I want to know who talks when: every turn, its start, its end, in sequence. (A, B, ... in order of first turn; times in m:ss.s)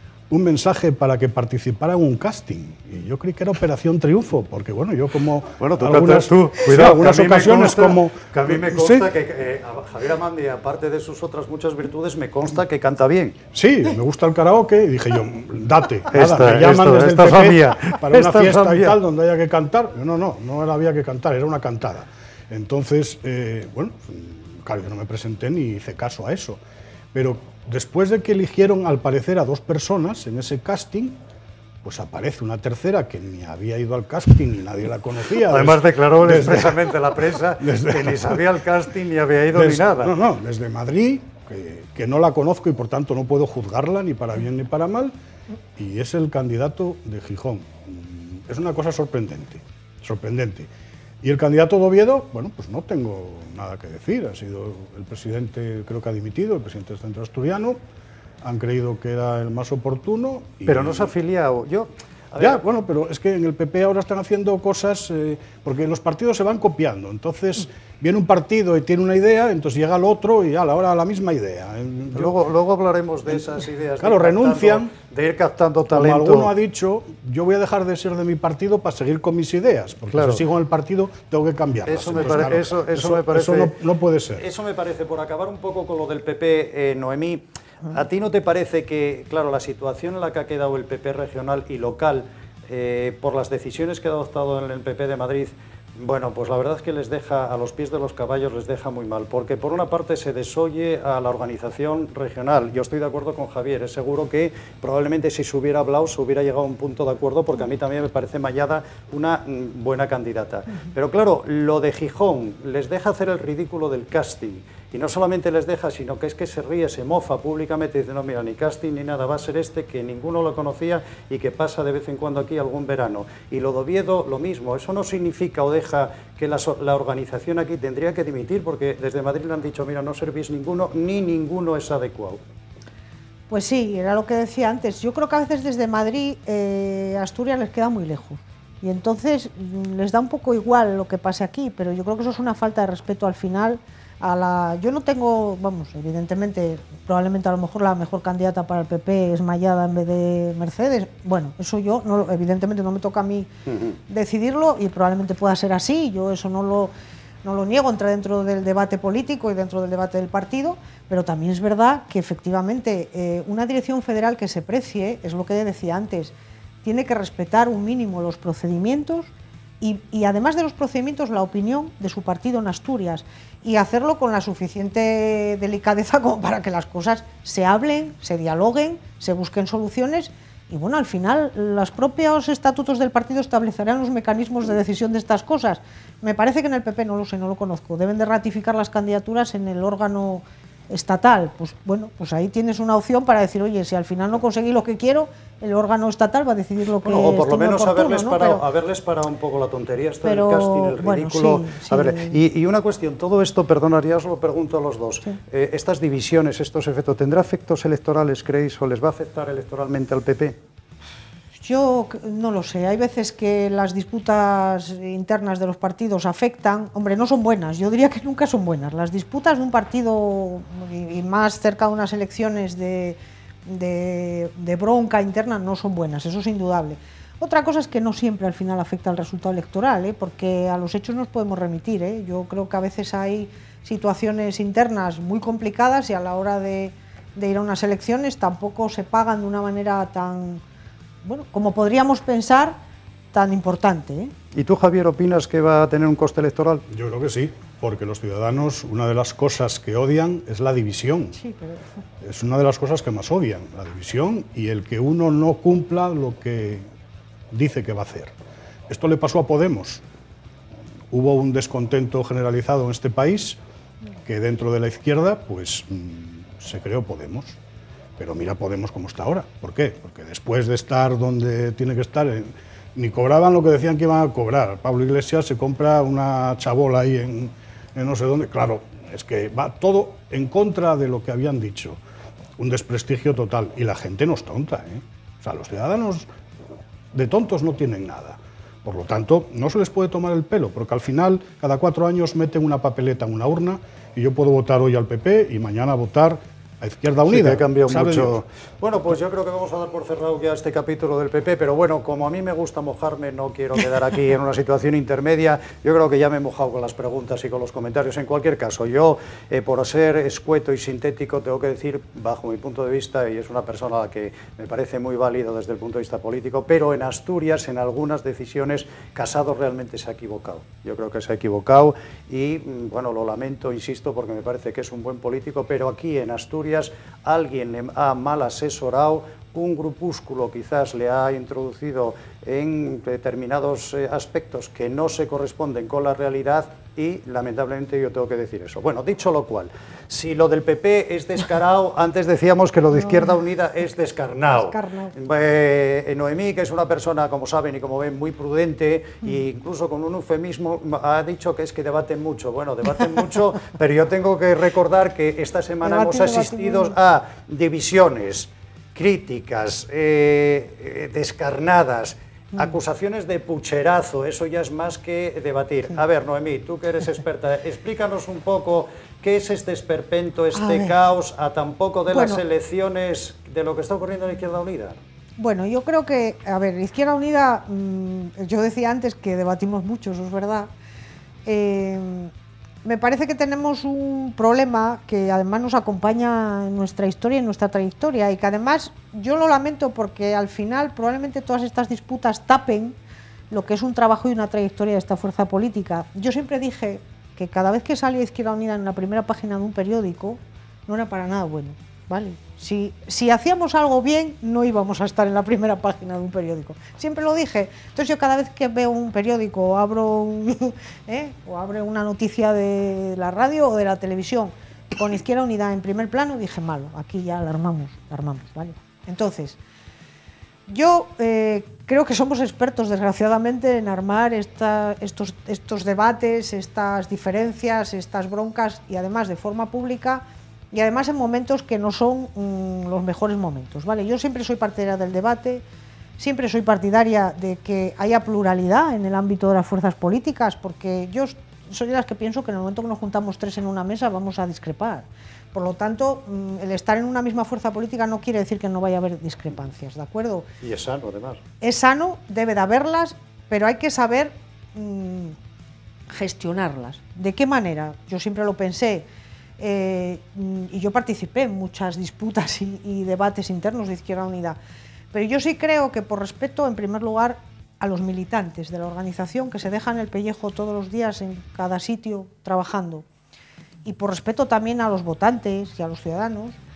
0:00.3-0:09.1 A
0:05.6-0:13.4 B
0:13.5-0:26.6 A
0:16.1-0:19.0 B
0:27.1-0:31.2 A
0:31.8-0:37.0 A
0:35.5-0:40.2 B
0:37.6-0:38.4 A
0:39.5-0:45.2 A
0:45.8-0:50.7 A
0:51.2-0:57.8 A
0:58.4-1:01.1 A
1:00.7-1:02.6 B
1:02.4-1:12.3 A
1:12.1-1:16.5 B
1:14.0-1:14.9 A
1:15.9-1:24.4 A
1:20.1-1:20.4 B
1:21.9-1:23.7 B
1:24.4-2:12.4 B
2:13.5-2:33.5 C
2:34.1-2:36.9 C
2:37.4-3:18.6 C
3:17.0-3:30.6 B
3:20.2-3:22.4 C
3:31.6-4:00.6 C
4:01.2-4:02.8 C
4:03.3-4:04.3 C
4:04.5-4:06.8 B
4:06.9-4:11.4 A
4:11.4-4:11.9 C
4:12.2-4:16.9 A
4:17.5-4:18.3 A
4:18.9-4:20.0 A
4:21.1-4:23.6 A
4:24.2-4:27.6 A
4:28.2-4:42.0 A
4:42.6-4:46.3 A
4:47.1-4:58.4 A
4:57.3-6:15.0 B
5:44.5-5:45.1 C
5:55.8-5:57.0 C
6:10.6-6:10.9 C
6:12.1-6:12.4 C
6:15.4-6:20.7 C
6:21.5-6:22.3 C
6:22.8-6:33.0 C
6:33.5-6:59.6 C
7:00.7-7:15.6 C
7:16.2-7:30.5 C
7:30.6-7:31.4 B
7:31.6-7:35.4 C
7:36.1-7:39.1 C
7:39.6-7:44.6 C
7:45.1-7:53.0 C
7:53.8-7:56.6 C